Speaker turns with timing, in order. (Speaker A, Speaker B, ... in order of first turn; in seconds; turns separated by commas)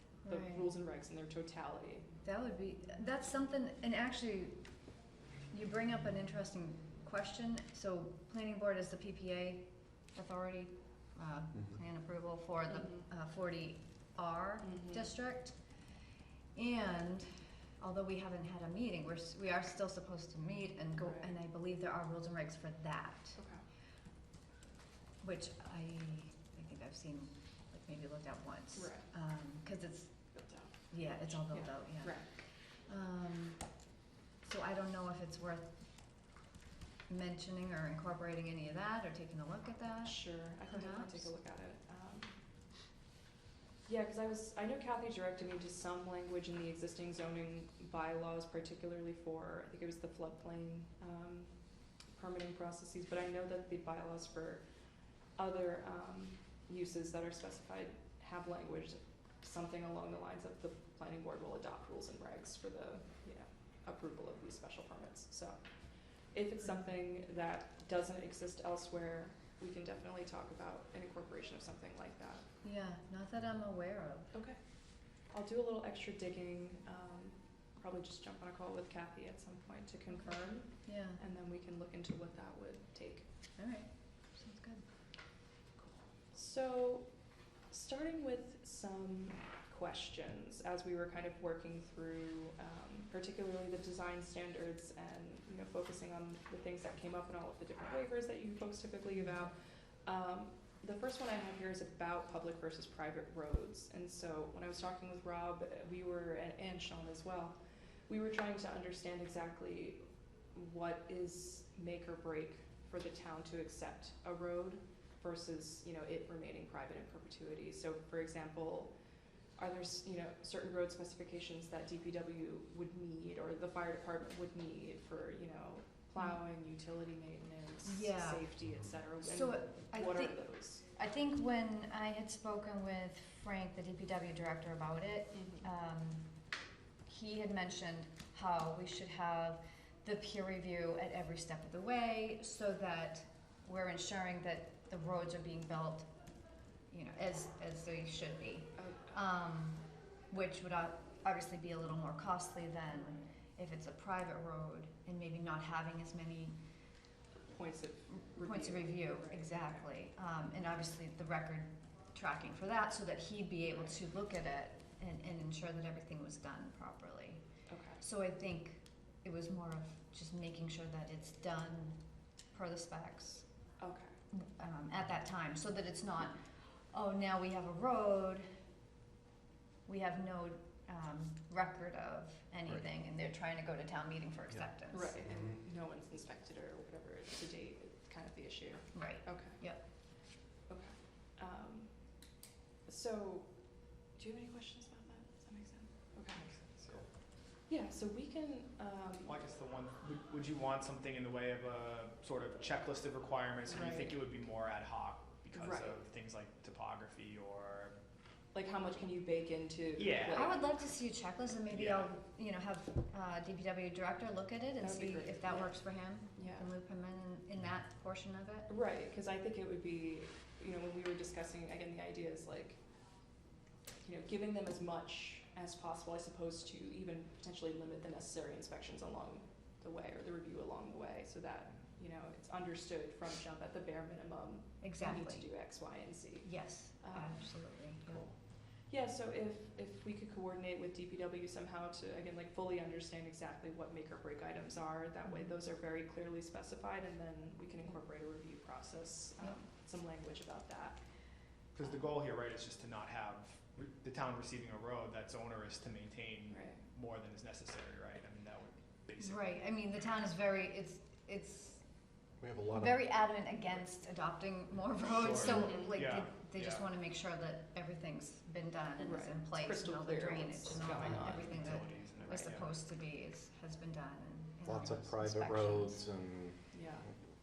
Speaker A: 0.2-0.7, Speaker B: 0.2-2.1, Speaker A: 2.2-4.7, Speaker A: 5.5-15.6, Speaker B: 12.7-13.1, Speaker B: 14.6-15.1, Speaker A: 16.5-23.4, Speaker B: 21.0-21.4, Speaker B: 23.4-23.6, Speaker A: 25.2-30.2, Speaker B: 28.7-29.1, Speaker B: 30.3-32.3, Speaker A: 30.9-33.7, Speaker A: 34.4-35.8, Speaker A: 37.1-41.3, Speaker B: 40.0-42.4, Speaker B: 43.9-51.5, Speaker B: 52.1-54.6, Speaker B: 55.4-65.7, Speaker B: 66.3-72.5, Speaker A: 72.6-74.3, Speaker B: 74.3-74.6, Speaker B: 75.2-83.2, Speaker A: 80.7-81.2, Speaker A: 83.6-84.8, Speaker B: 85.8-87.1, Speaker B: 87.7-110.0, Speaker B: 110.5-118.9, Speaker B: 119.6-130.8, Speaker A: 127.8-128.5, Speaker A: 129.2-136.3, Speaker B: 135.3-135.7, Speaker A: 137.1-146.1, Speaker A: 146.9-156.6, Speaker B: 148.8-149.2, Speaker B: 157.5-159.8, Speaker A: 158.1-167.4, Speaker B: 167.7-168.0, Speaker A: 168.0-172.0, Speaker A: 172.5-173.5, Speaker B: 173.8-174.1, Speaker A: 174.3-178.5, Speaker A: 179.8-185.2, Speaker C: 184.5-185.6, Speaker B: 184.9-189.6, Speaker A: 188.9-189.8, Speaker B: 190.7-191.9, Speaker B: 192.8-193.5, Speaker B: 194.1-196.5, Speaker D: 196.3-197.1, Speaker B: 197.6-199.3, Speaker D: 199.2-207.9, Speaker B: 203.7-204.1, Speaker B: 205.5-206.0, Speaker B: 208.5-210.6, Speaker D: 209.9-210.5, Speaker A: 210.3-218.7, Speaker D: 211.7-212.1, Speaker B: 214.8-215.7, Speaker B: 216.3-216.7, Speaker B: 218.7-222.8, Speaker B: 224.0-237.5, Speaker A: 234.8-235.5, Speaker A: 236.4-238.2, Speaker B: 238.8-251.0, Speaker A: 245.2-245.6, Speaker D: 251.7-259.6, Speaker B: 256.5-256.8, Speaker A: 259.2-261.8, Speaker C: 262.4-263.0, Speaker A: 262.7-276.1, Speaker D: 265.1-266.9, Speaker B: 265.6-265.9, Speaker B: 269.0-271.6, Speaker D: 270.8-272.8, Speaker C: 274.6-277.1, Speaker B: 276.7-277.1